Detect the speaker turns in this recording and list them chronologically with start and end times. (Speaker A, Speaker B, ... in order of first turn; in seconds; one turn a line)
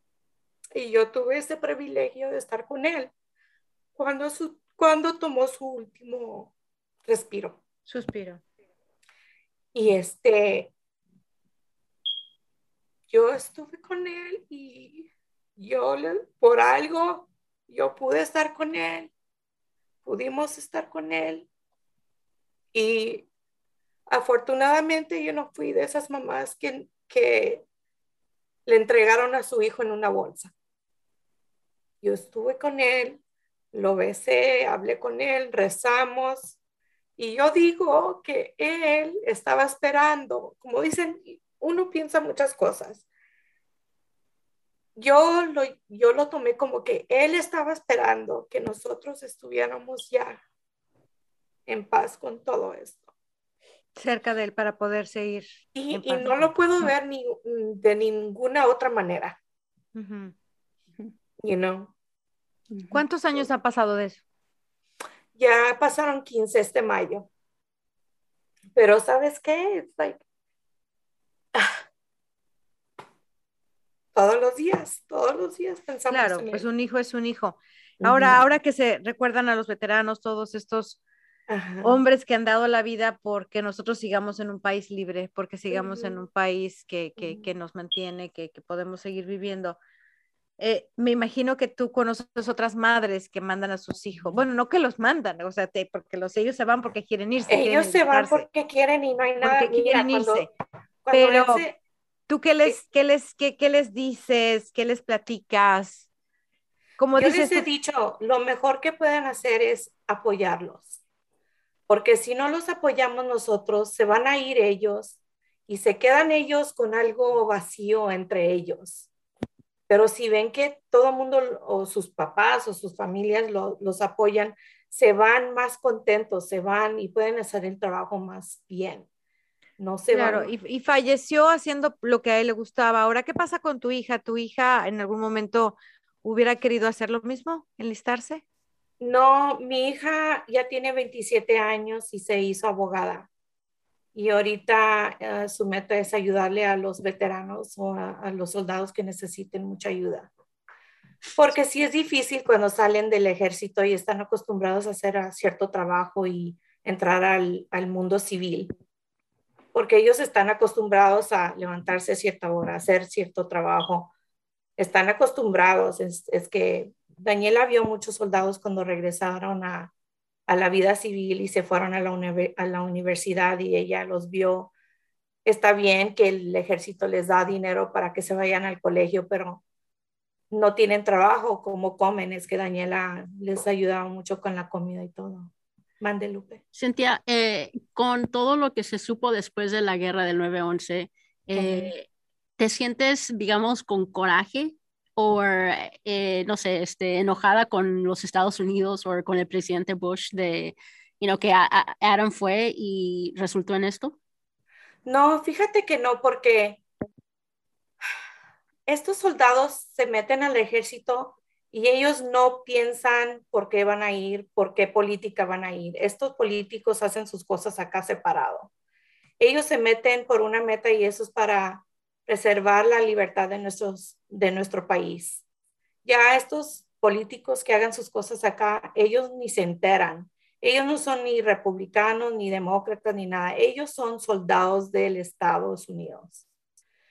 Speaker A: 0.8-3.1
Speaker A: 4.0-6.5
Speaker A: 7.1-7.6
Speaker B: 7.9-8.4
Speaker A: 9.7-10.7
Speaker A: 13.1-19.1
Speaker A: 20.1-21.5
Speaker A: 22.7-23.3
Speaker A: 24.1-27.6
Speaker A: 28.7-30.5
Speaker A: 32.0-33.2
Speaker A: 33.7-36.6
Speaker A: 37.2-43.1
Speaker A: 45.0-50.4
Speaker A: 51.7-53.1
Speaker B: 54.0-56.5
Speaker A: 55.8-59.4
Speaker B: 59.9-60.3
Speaker A: 61.4-61.9
Speaker B: 62.9-64.2
Speaker A: 65.4-67.3
Speaker A: 68.7-70.2
Speaker A: 71.5-71.8
Speaker A: 74.1-76.7
Speaker B: 76.1-81.0
Speaker A: 78.0-78.4
Speaker A: 81.5-82.0
Speaker B: 81.8-89.8
Speaker A: 85.7-86.2
Speaker A: 87.2-87.5
Speaker B: 90.6-98.5
Speaker A: 97.5-100.5
Speaker B: 99.4-100.5
Speaker A: 101.0-101.8
Speaker B: 101.1-101.6
Speaker B: 102.3-106.1
Speaker B: 107.0-107.7
Speaker A: 107.2-111.0
Speaker A: 111.9-115.2
Speaker A: 115.7-119.1
Speaker A: 119.9-129.1
Speaker A: 129.8-130.5
Speaker B: 130.1-138.4
Speaker A: 139.0-143.3
Speaker A: 144.2-150.3
Speaker A: 151.3-158.7
Speaker A: 159.7-164.1
Speaker A: 164.8-169.9
Speaker A: 170.5-174.7
Speaker A: 175.4-179.6
Speaker A: 180.5-186.6
Speaker C: 186.7-192.1
Speaker A: 191.6-191.9
Speaker C: 192.6-204.2
Speaker A: 205.1-206.8
Speaker A: 208.9-218.7
Speaker A: 219.4-225.4
Speaker A: 226.1-236.4